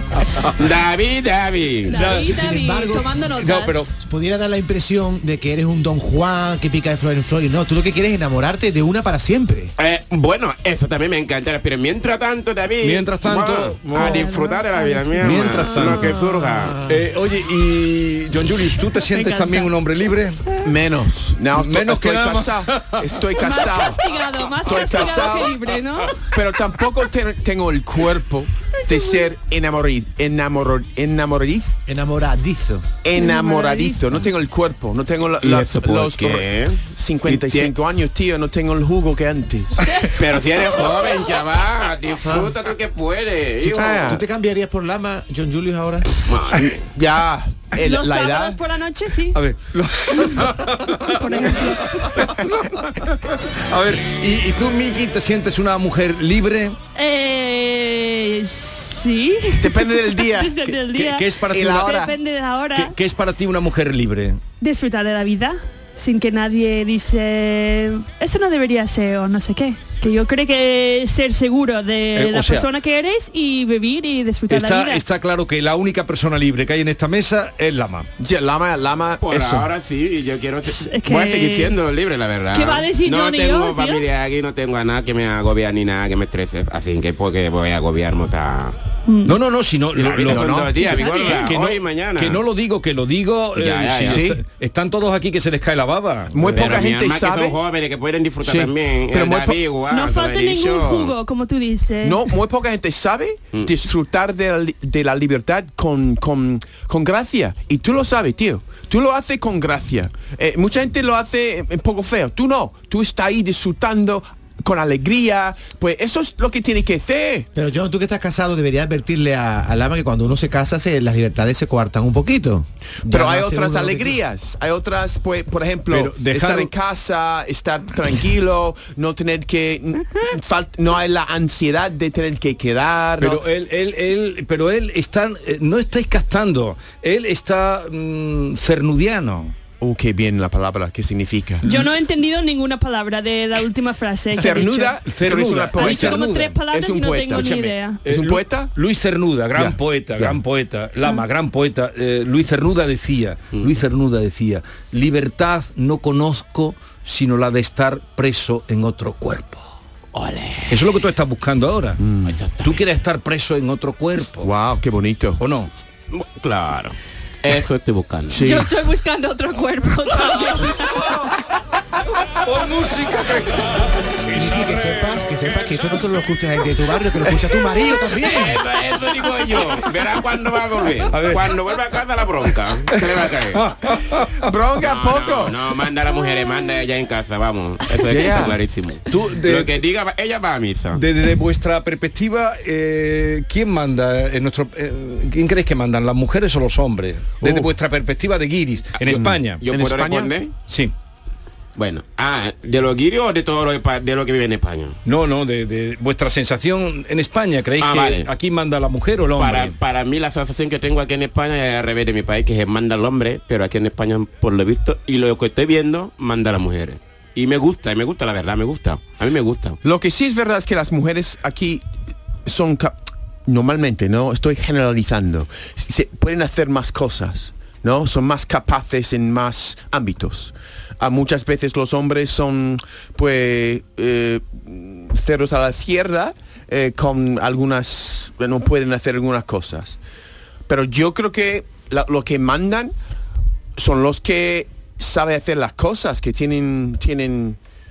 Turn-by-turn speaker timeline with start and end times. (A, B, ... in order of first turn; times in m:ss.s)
0:00.6-0:02.0 A
0:01.9-0:03.9 B
0:01.9-0:02.4 C
0:02.2-0:03.1 D
0:03.4-0:03.9 C
0:03.9-0:09.7 D
0:09.8-0:16.8 A
0:12.8-0:14.3 C
0:13.9-0:16.2 B
0:15.2-0:16.1 C
0:16.2-0:17.0 D
0:16.9-0:20.4 C
0:19.0-0:19.7 B
0:20.6-0:25.6 E
0:21.5-0:23.0 C
0:23.4-0:26.2 B
0:26.3-0:31.8 E
0:28.9-0:29.2 B
0:31.9-0:32.9 D
0:33.0-0:40.1 E
0:33.2-0:34.2 B
0:35.4-0:37.7 A
0:35.8-0:36.2 D
0:40.1-0:44.1 A
0:43.6-0:44.2 E
0:44.0-0:46.1 D
0:46.2-0:46.8 A
0:46.5-0:48.6 E
0:47.8-0:49.4 B
0:49.3-0:56.8 C
0:50.1-0:52.2 B
0:57.0-1:02.9 B
0:59.6-1:00.7 E
1:00.9-1:01.9 C
1:01.5-1:02.2 E
1:02.7-1:04.4 C
1:04.6-1:15.0 B
1:12.1-1:12.7 C
1:14.5-1:18.1 C
1:18.2-1:19.7 E
1:19.2-1:28.8 A
1:20.6-1:21.8 B
1:22.5-1:24.0 B
1:29.1-1:29.3 B
1:29.2-1:36.8 C
1:30.0-1:32.4 A
1:30.0-1:31.0 E
1:30.8-1:31.5 B
1:33.6-1:34.3 A
1:34.0-1:34.4 E
1:36.3-1:37.6 E
1:36.5-1:41.1 A
1:38.4-1:39.6 E
1:39.9-1:42.2 B
1:42.0-1:57.5 E
1:57.6-2:04.2 D
2:03.0-2:13.4 E
2:05.9-2:06.7 C
2:13.2-2:19.5 C
2:19.8-2:21.6 E
2:21.6-2:25.0 B
2:24.4-2:28.7 E
2:24.5-2:26.6 C
2:25.7-2:28.0 B
2:27.3-2:39.6 C
2:29.5-2:30.4 E
2:40.1-2:40.8 A
2:40.7-2:42.0 C
2:42.0-2:42.4 E
2:42.2-2:42.8 A
2:42.6-2:44.5 C
2:44.4-2:45.4 E
2:45.4-2:45.7 C
2:46.1-2:48.4 A
2:48.3-2:48.7 E
2:48.4-2:50.9 B
2:52.4-2:53.8 C
2:54.3-2:55.0 C
2:54.3-2:58.6 D
2:58.2-3:03.6 A
3:01.1-3:01.5 C
3:02.9-3:04.5 C
3:04.4-3:05.6 E
3:04.8-3:11.0 A
3:08.0-3:08.6 E
3:09.1-3:09.8 C
3:10.9-3:19.6 C
3:17.4-3:17.7 E
3:19.1-3:20.3 E
3:19.1-3:20.5 A
3:20.7-3:20.9 C
3:21.8-3:25.0 A
3:25.0-3:29.8 C
3:27.8-3:28.3 A
3:29.4-3:39.8 A
3:39.8-3:41.9 E
3:42.4-4:00.0 E
4:00.7-4:02.9 E
4:03.8-4:07.6 E